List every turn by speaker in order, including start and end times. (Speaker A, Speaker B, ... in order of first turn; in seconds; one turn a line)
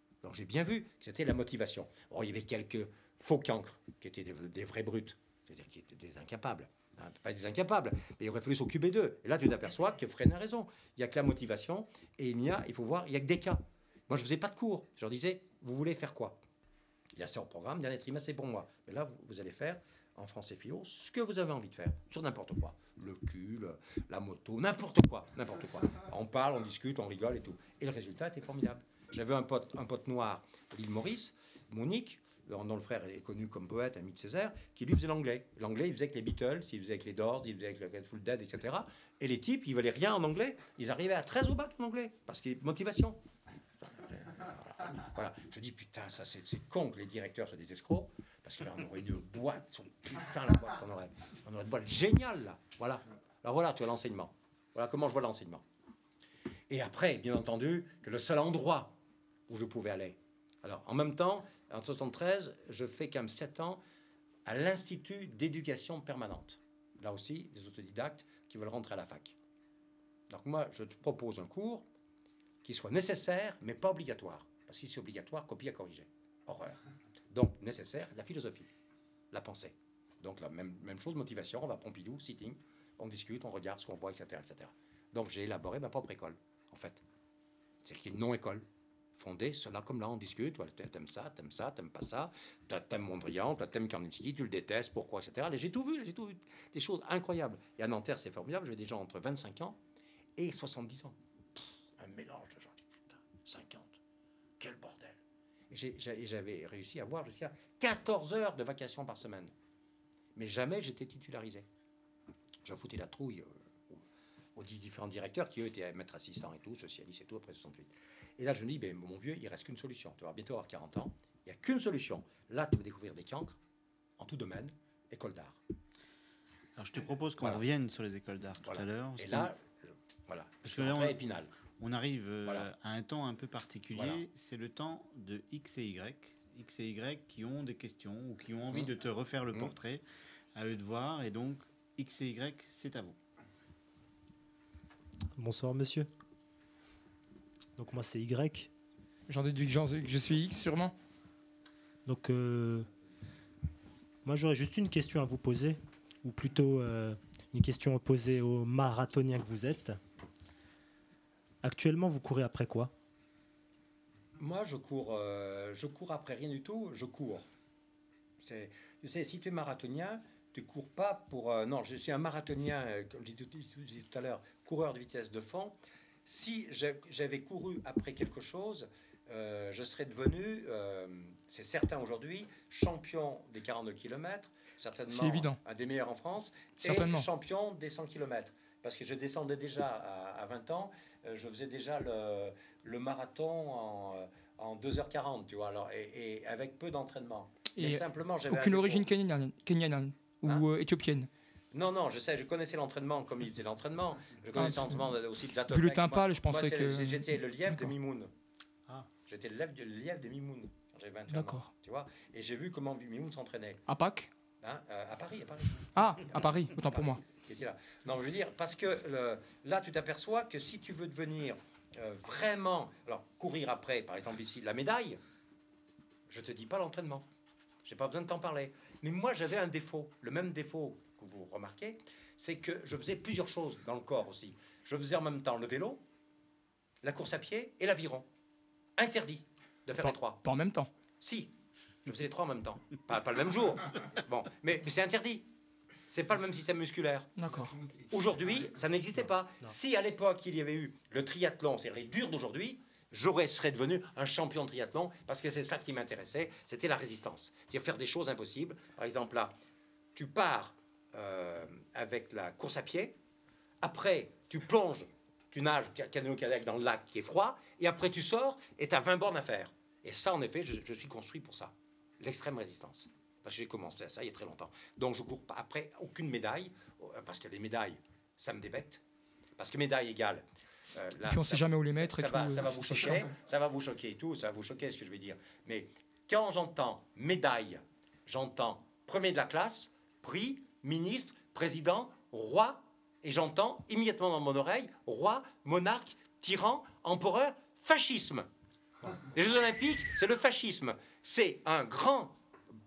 Speaker A: 0.2-16.4
Speaker A: 17.1-43.2
Speaker A: 43.8-55.6
Speaker A: 56.7-63.8
Speaker A: 64.4-69.4
Speaker A: 70.3-71.9
Speaker A: 72.6-78.7
Speaker A: 79.3-87.0
Speaker A: 87.8-99.8
Speaker A: 100.4-104.0
Speaker A: 104.6-109.5
Speaker A: 110.3-111.7
Speaker A: 112.6-114.0
Speaker A: 114.5-123.6
Speaker A: 124.2-125.6
Speaker B: 126.8-129.5
Speaker A: 128.6-131.5
Speaker B: 130.6-131.2
Speaker B: 131.7-140.0
Speaker A: 133.9-134.2
Speaker B: 140.5-143.2
Speaker C: 145.3-146.1
Speaker C: 147.8-148.7
Speaker D: 149.3-150.9
Speaker C: 152.1-152.9
Speaker C: 154.2-160.0
Speaker C: 161.6-162.9
Speaker A: 164.4-167.5
Speaker A: 168.4-199.1
Speaker D: 185.1-185.6
Speaker D: 186.8-187.3
Speaker D: 197.7-201.3
Speaker A: 201.7-208.3
Speaker D: 204.6-205.0
Speaker D: 205.7-207.9
Speaker A: 209.2-213.8
Speaker D: 211.3-211.7
Speaker D: 213.9-214.3
Speaker A: 214.6-225.2
Speaker D: 215.9-217.2
Speaker A: 226.3-227.3
Speaker A: 227.8-236.0
Speaker A: 237.0-238.3
Speaker A: 239.0-240.4
Speaker D: 240.0-240.9
Speaker A: 241.2-241.5
Speaker A: 242.0-245.5
Speaker A: 246.1-259.5
Speaker D: 247.3-247.7
Speaker A: 260.1-263.2
Speaker A: 263.8-279.0
Speaker A: 279.6-298.5
Speaker D: 281.2-283.2
Speaker A: 299.2-302.4